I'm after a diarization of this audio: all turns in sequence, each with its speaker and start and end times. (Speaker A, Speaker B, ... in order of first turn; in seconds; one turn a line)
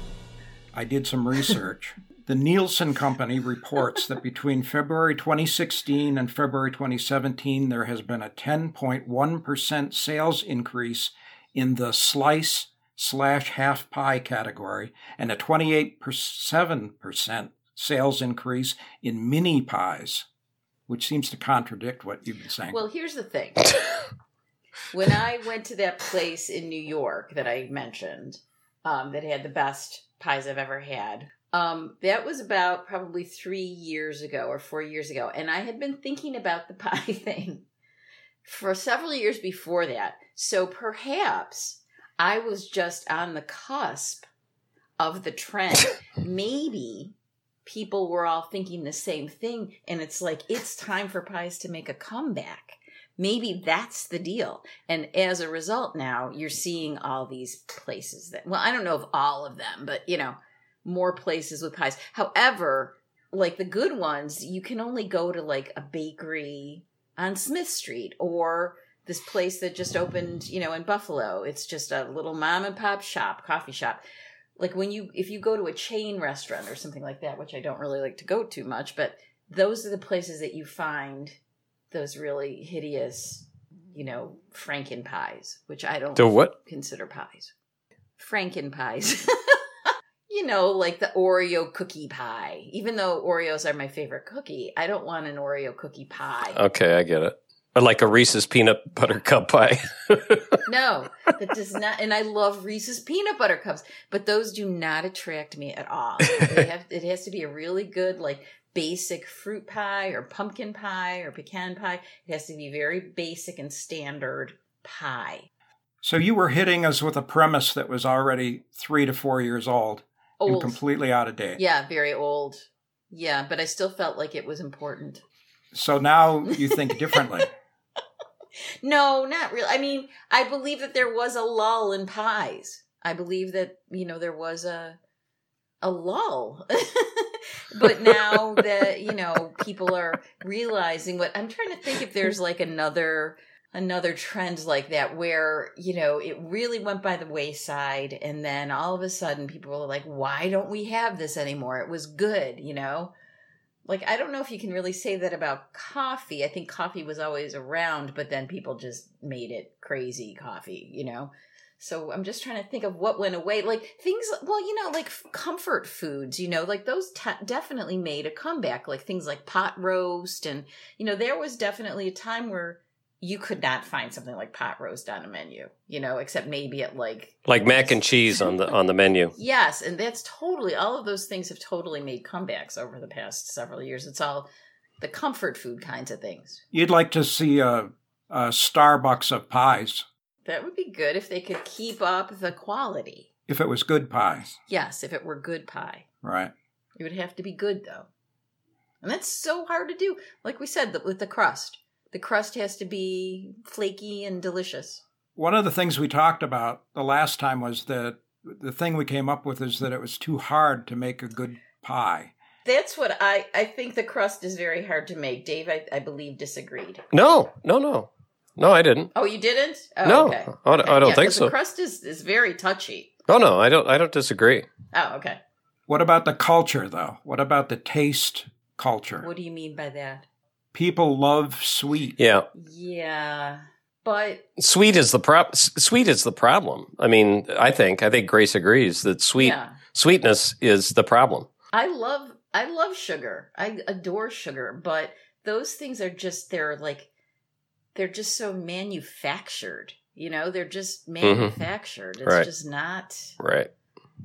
Speaker A: 0.7-20.2
Speaker A: 20.9-22.8
Speaker B: 22.7-23.8
Speaker B: 24.9-37.6
Speaker B: 38.4-44.3
Speaker B: 45.0-47.1
Speaker B: 47.6-74.0
Speaker B: 74.6-81.4
Speaker B: 81.9-87.5
Speaker C: 86.2-86.5
Speaker B: 88.2-89.6
Speaker B: 90.3-96.6
Speaker C: 96.5-100.6
Speaker B: 100.7-115.5
Speaker A: 116.0-121.6
Speaker B: 120.4-120.8
Speaker B: 121.6-125.2
Speaker A: 125.7-127.5
Speaker B: 126.5-127.2
Speaker B: 128.8-135.0
Speaker B: 135.8-153.1
Speaker B: 153.8-178.4
Speaker C: 177.4-179.3
Speaker B: 179.3-184.5
Speaker B: 185.0-186.6
Speaker A: 186.7-190.1
Speaker B: 190.4-193.3
Speaker A: 193.5-194.6
Speaker B: 194.7-196.0
Speaker A: 196.2-196.5
Speaker B: 197.0-198.1
Speaker B: 199.0-205.0
Speaker A: 205.3-212.3
Speaker B: 212.6-217.0
Speaker C: 217.1-219.1
Speaker B: 219.1-223.1
Speaker C: 220.0-221.5
Speaker C: 223.3-224.7
Speaker B: 224.9-225.4
Speaker A: 225.9-229.2
Speaker B: 229.2-230.3
Speaker A: 230.7-232.2
Speaker C: 232.2-232.5
Speaker B: 232.5-234.4
Speaker C: 234.6-241.5
Speaker B: 239.4-239.8
Speaker B: 241.7-247.1
Speaker B: 247.9-253.3
Speaker C: 251.2-251.5
Speaker C: 253.4-253.7